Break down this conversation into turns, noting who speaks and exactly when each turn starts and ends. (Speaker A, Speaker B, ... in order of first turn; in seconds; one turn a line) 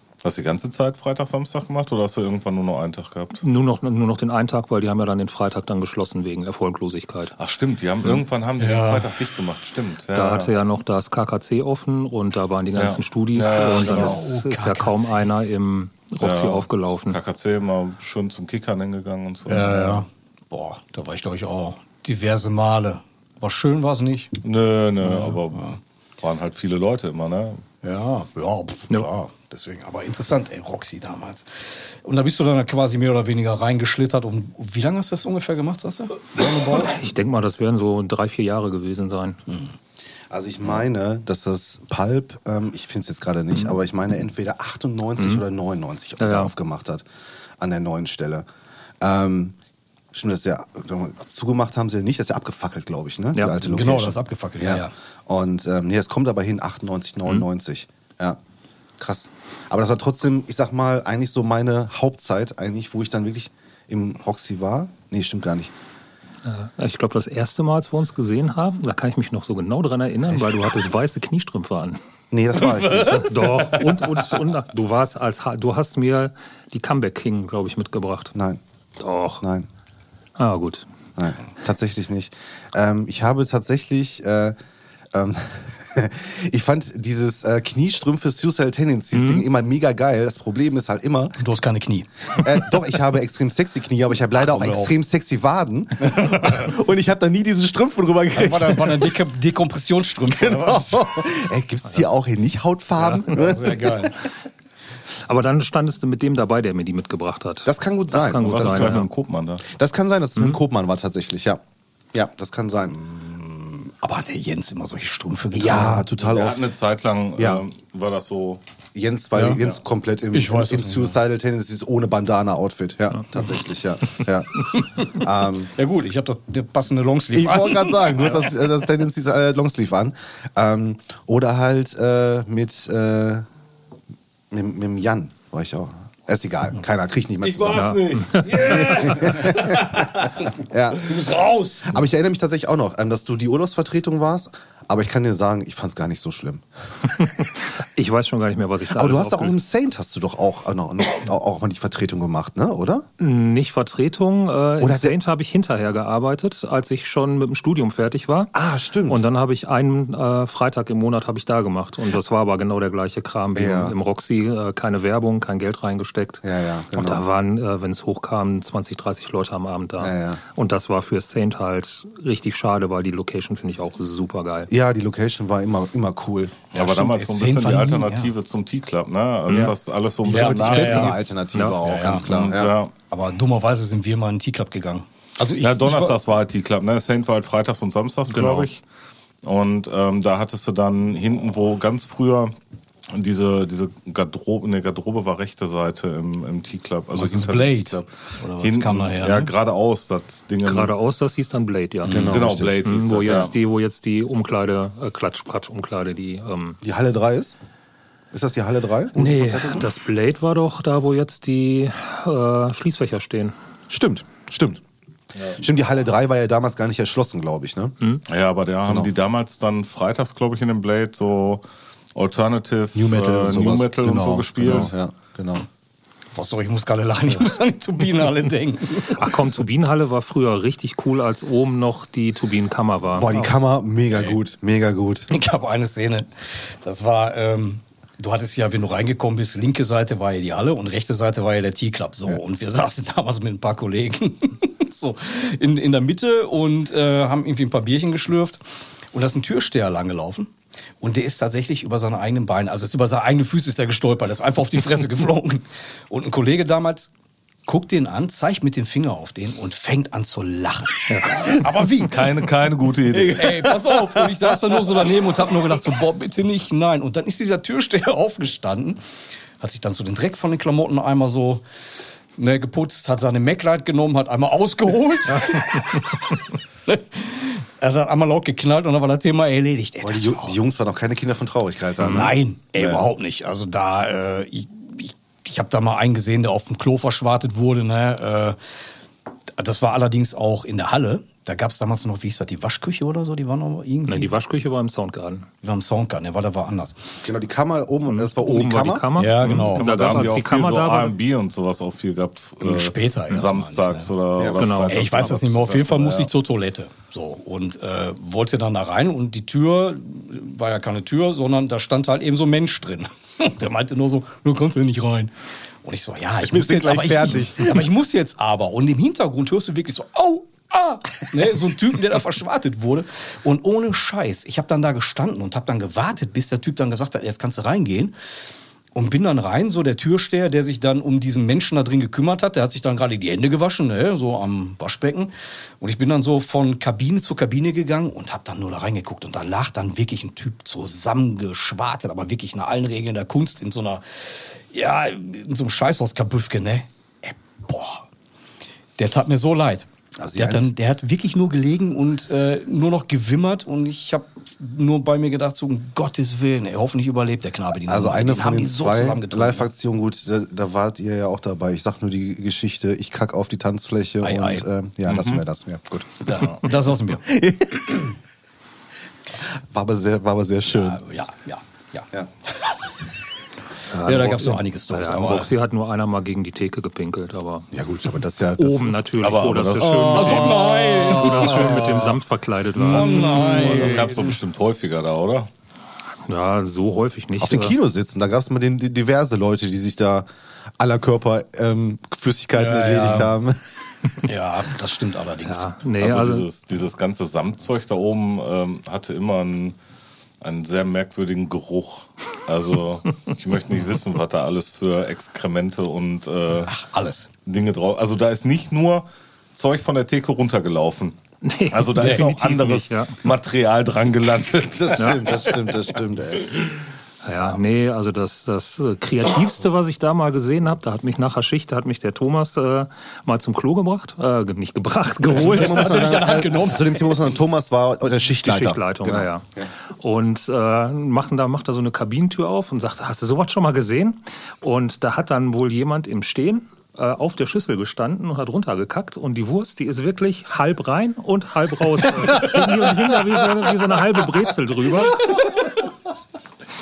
Speaker A: 0.2-3.4
Speaker B: 3.4-7.3
Speaker A: 7.4-10.5
Speaker C: 8.6-9.1
Speaker B: 10.1-17.2
Speaker A: 12.8-14.2
Speaker C: 13.5-15.2
Speaker A: 16.2-20.1
Speaker C: 19.5-24.4
Speaker A: 24.4-27.6
Speaker C: 25.0-25.8
Speaker C: 27.8-36.9
Speaker B: 36.7-39.4
Speaker D: 40.3-47.0
Speaker B: 45.2-45.4
Speaker B: 46.2-46.5
Speaker D: 47.6-48.5
Speaker D: 49.0-49.6
Speaker D: 50.1-58.4
Speaker C: 53.6-54.9
Speaker D: 59.0-65.7
Speaker B: 66.4-72.0
Speaker D: 72.3-73.7
Speaker A: 72.6-74.1
Speaker B: 73.2-78.3
Speaker B: 79.0-79.4
Speaker D: 79.4-79.7
Speaker B: 80.4-80.8
Speaker D: 81.2-84.6
Speaker D: 85.1-91.4
Speaker B: 89.1-89.4
Speaker C: 91.4-92.7
Speaker D: 92.3-99.2
Speaker C: 94.3-94.9
Speaker C: 96.0-96.6
Speaker C: 98.3-101.0
Speaker D: 100.4-104.1
Speaker B: 103.0-103.5
Speaker C: 103.3-104.1
Speaker B: 105.2-109.1
Speaker D: 107.7-109.1
Speaker A: 108.3-109.7
Speaker D: 109.7-111.6
Speaker D: 112.1-113.0
Speaker C: 112.9-116.1
Speaker D: 115.5-116.7
Speaker A: 116.2-118.6
Speaker D: 117.4-117.6
Speaker D: 118.9-125.7
Speaker C: 119.3-119.6
Speaker C: 120.3-121.2
Speaker C: 124.8-125.2
Speaker C: 125.8-128.4
Speaker D: 127.3-133.5
Speaker D: 134.5-138.0
Speaker A: 137.4-139.9
Speaker B: 137.7-139.2
Speaker D: 138.6-147.5
Speaker C: 139.2-139.8
Speaker C: 141.0-141.9
Speaker B: 147.2-149.6
Speaker D: 148.9-153.1
Speaker B: 153.2-158.5
Speaker D: 154.8-155.2
Speaker D: 158.5-159.2
Speaker B: 159.1-174.7
Speaker D: 163.5-163.9
Speaker D: 166.4-167.2
Speaker D: 170.0-170.4
Speaker D: 174.7-176.6
Speaker A: 176.7-181.3
Speaker C: 176.7-178.3
Speaker B: 179.5-179.7
Speaker C: 180.2-182.3
Speaker D: 180.3-182.7
Speaker A: 182.1-182.9
Speaker C: 183.1-186.2
Speaker A: 185.6-188.8
Speaker B: 188.3-188.7
Speaker A: 189.4-192.5
Speaker A: 193.1-200.9
Speaker C: 197.1-199.5
Speaker B: 200.6-202.2
Speaker C: 202.0-202.4
Speaker D: 202.1-203.5
Speaker A: 202.1-203.5
Speaker B: 202.8-206.8
Speaker D: 206.8-207.6
Speaker D: 208.3-209.9
Speaker B: 209.1-213.6
Speaker D: 213.9-214.8
Speaker A: 215.3-215.6
Speaker D: 215.6-217.9
Speaker A: 218.3-221.6
Speaker A: 222.2-224.9
Speaker D: 222.9-225.7
Speaker C: 226.3-229.3
Speaker B: 229.1-233.6
Speaker D: 233.2-235.3
Speaker C: 235.3-248.6
Speaker C: 249.1-257.1
Speaker C: 257.7-262.5
Speaker B: 261.1-261.4
Speaker A: 262.1-263.7
Speaker C: 263.1-269.0
Speaker C: 269.6-271.6
Speaker C: 272.4-280.6
Speaker D: 280.0-282.4
Speaker B: 282.0-282.3
Speaker C: 282.0-288.6
Speaker A: 282.8-283.0
Speaker C: 289.5-294.4
Speaker B: 294.1-295.5
Speaker C: 295.6-297.1
Speaker D: 297.2-299.1
Speaker B: 298.1-301.1
Speaker C: 299.1-299.9
Speaker A: 299.4-306.3
Speaker C: 302.6-304.1
Speaker D: 304.4-304.7
Speaker B: 304.6-305.1
Speaker C: 304.9-328.1
Speaker D: 316.4-317.9
Speaker C: 328.9-348.1
Speaker C: 349.0-359.7
Speaker D: 350.2-350.7
Speaker D: 357.8-366.5
Speaker C: 364.2-364.7
Speaker A: 365.1-365.4
Speaker C: 366.2-367.3
Speaker D: 367.2-368.2
Speaker D: 369.6-371.0
Speaker C: 370.7-372.8
Speaker B: 373.9-377.7
Speaker C: 374.0-375.5
Speaker D: 377.7-378.9
Speaker B: 378.6-384.2
Speaker A: 379.2-381.4
Speaker C: 380.1-382.2
Speaker C: 382.8-384.3
Speaker A: 382.9-385.5
Speaker B: 386.3-387.8
Speaker D: 387.4-390.3
Speaker D: 390.8-394.2
Speaker C: 392.5-393.4
Speaker C: 394.2-395.7
Speaker B: 395.4-396.4
Speaker A: 396.0-399.8
Speaker A: 400.4-406.7
Speaker C: 406.6-407.3
Speaker A: 407.4-411.2
Speaker B: 411.4-413.2
Speaker A: 411.7-415.8
Speaker C: 412.0-412.3
Speaker D: 414.7-416.7
Speaker B: 415.0-415.3
Speaker B: 417.2-425.9
Speaker D: 425.3-429.7
Speaker C: 425.3-427.2
Speaker B: 428.4-429.4
Speaker B: 430.0-445.3
Speaker C: 442.3-443.0
Speaker C: 445.2-445.7